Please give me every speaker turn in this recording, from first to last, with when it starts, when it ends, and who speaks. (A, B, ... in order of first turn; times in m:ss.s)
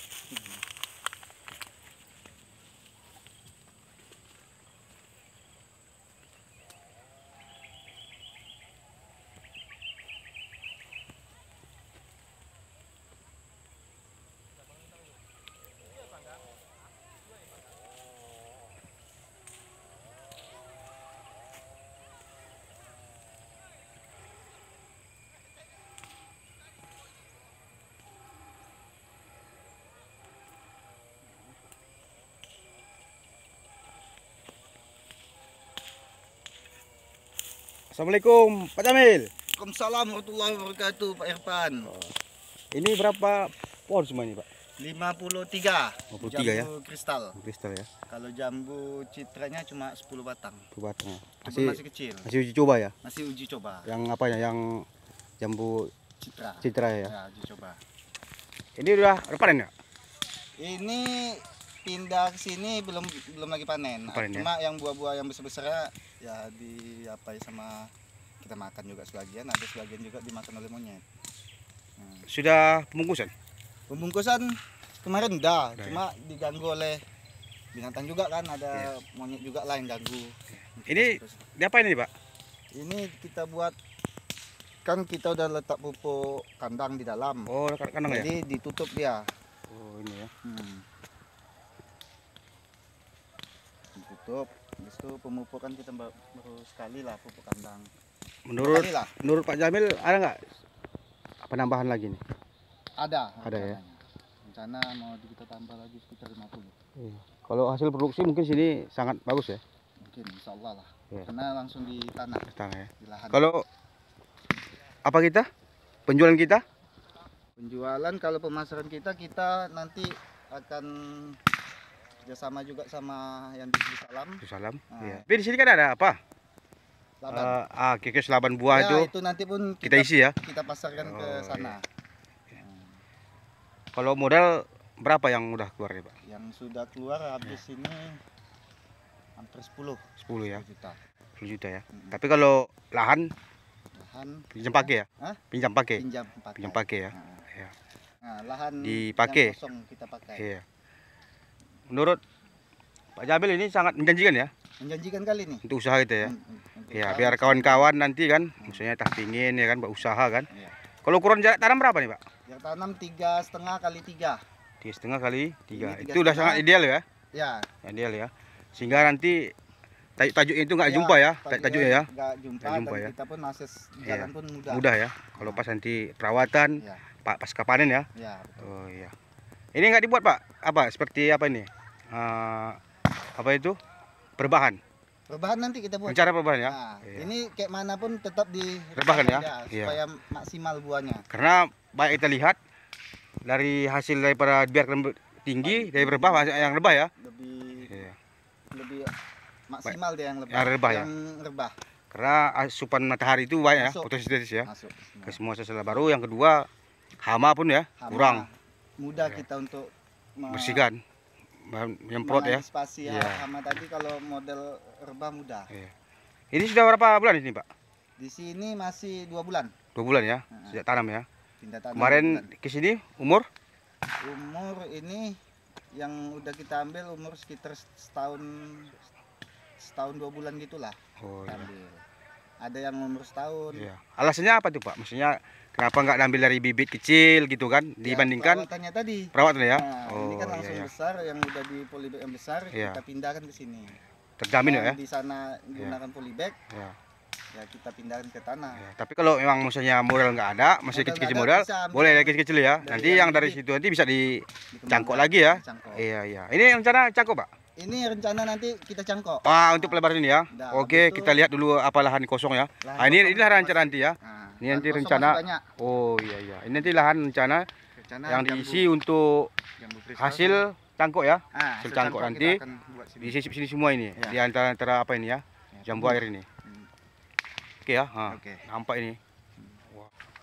0:00.3-0:00.6 A
0:37.9-0:39.3 B
0:39.5-0:41.9 A
0:41.9-0:42.1 B
0:42.7-0:44.4 B
0:44.8-0:47.4 A
0:46.1-0:46.7 B
0:47.4-0:47.9 B
0:48.1-0:50.7 A
0:50.7-0:52.9 B
0:51.4-0:52.3 A
0:53.0-0:53.9 A
0:53.8-0:54.8 B
0:55.4-0:55.9 B
0:56.2-0:57.8 A
0:56.6-0:57.1 B
0:58.8-0:59.7 B
1:00.6-1:07.9 A
1:04.1-1:04.5 B
1:08.4-1:11.0 A
1:12.0-1:12.3 A
1:12.3-1:13.3 B
1:13.9-1:17.0 A
1:17.7-1:21.4 A
1:20.9-1:22.1 B
1:22.7-1:23.7 A
1:24.8-1:27.5 A
1:27.5-1:28.3 B
1:28.1-1:29.2 A
1:29.7-1:30.3 B
1:30.4-1:30.8 A
1:34.0-1:37.9 A
1:38.5-1:40.4 B
1:38.6-1:39.1 A
1:41.4-1:42.2 B
1:43.0-1:46.7 A
1:43.4-1:43.8 B
1:47.0-1:49.6 B
1:50.0-1:52.5 A
1:52.5-1:53.6 B
1:53.0-1:53.4 A
1:55.0-1:55.4 B
1:56.1-1:56.6 B
1:57.6-2:01.4 A
2:02.2-2:05.2 A
2:04.4-2:06.2 B
2:07.2-2:07.6 A
2:07.3-2:09.1 B
2:08.7-2:11.8 A
2:09.8-2:10.4 B
2:11.0-2:11.7 B
2:12.5-2:13.0 A
2:13.9-2:16.1 B
2:16.2-2:18.2 A
2:19.4-2:21.0 A
2:20.2-2:20.6 B
2:21.4-2:23.3 B
2:21.9-2:22.2 A
2:23.9-2:25.4 A
2:24.5-2:26.0 B
2:26.0-2:27.4 A
2:26.6-2:27.7 B
2:28.2-2:30.4 A
2:28.8-2:29.5 B
2:30.4-2:30.6 B
2:31.9-2:32.2 B
2:33.2-2:34.5 B
2:34.8-2:35.6 A
2:35.6-2:36.3 B
2:36.2-2:37.9 A
2:36.9-2:40.5 B
2:38.6-2:38.8 A
2:41.0-2:42.2 B
2:42.5-2:44.4 A
2:44.8-2:47.0 B
2:45.7-2:46.6 A
2:47.3-2:47.7 A
2:47.8-2:49.5 B
2:50.2-2:52.1 B
2:50.8-2:54.8 A
2:52.6-2:53.1 B
2:54.0-2:58.1 B
2:55.4-2:55.6 A
2:56.8-2:57.0 A
2:58.2-2:58.7 A
2:58.6-2:59.1 B
2:59.7-3:02.8 B
3:03.3-3:03.8 B
3:04.4-3:04.8 B
3:05.3-3:11.2 A
3:06.1-3:07.3 B
3:09.0-3:10.0 B
3:11.3-3:12.6 B
3:13.4-3:17.1 B
3:15.6-3:18.0 A
3:17.9-3:18.2 B
3:18.7-3:19.1 A
3:19.7-3:21.7 A
3:20.5-3:21.1 B
3:22.1-3:24.7 B
3:23.7-3:24.1 A
3:24.6-3:25.4 A
3:25.2-3:26.7 B
3:27.2-3:28.4 B
3:28.0-3:28.5 A
3:29.0-3:30.9 A
3:29.2-3:29.4 B
3:30.5-3:31.0 B
3:31.7-3:33.4 B
3:32.2-3:35.7 A
3:36.5-3:37.7 B
3:38.2-3:39.7 A
3:39.9-3:41.2 B
3:40.5-3:40.8 A
3:41.6-3:42.5 A
3:42.0-3:43.4 B
3:44.2-3:45.4 A
3:45.9-3:48.9 A
3:49.8-3:52.0 A
3:51.2-3:51.7 B
3:52.6-3:53.9 A
3:53.7-3:58.7 B
3:58.0-4:04.0 A
3:59.3-4:00.9 B
4:02.7-4:03.0 B
4:04.4-4:05.0 B
4:04.6-4:06.6 A
4:07.5-4:08.8 A
4:08.8-4:17.5 B
4:10.9-4:13.6 A
4:14.7-4:16.0 A
4:17.8-4:21.5 A
4:19.4-4:27.7 B
4:22.8-4:25.7 A
4:28.0-4:28.9 A
4:28.3-4:29.5 B
4:29.8-4:30.7 A
4:30.2-4:32.6 B
4:31.5-4:33.4 A
4:33.2-4:36.4 B
4:35.7-4:36.9 A
4:37.8-4:39.2 B
4:38.3-4:38.6 A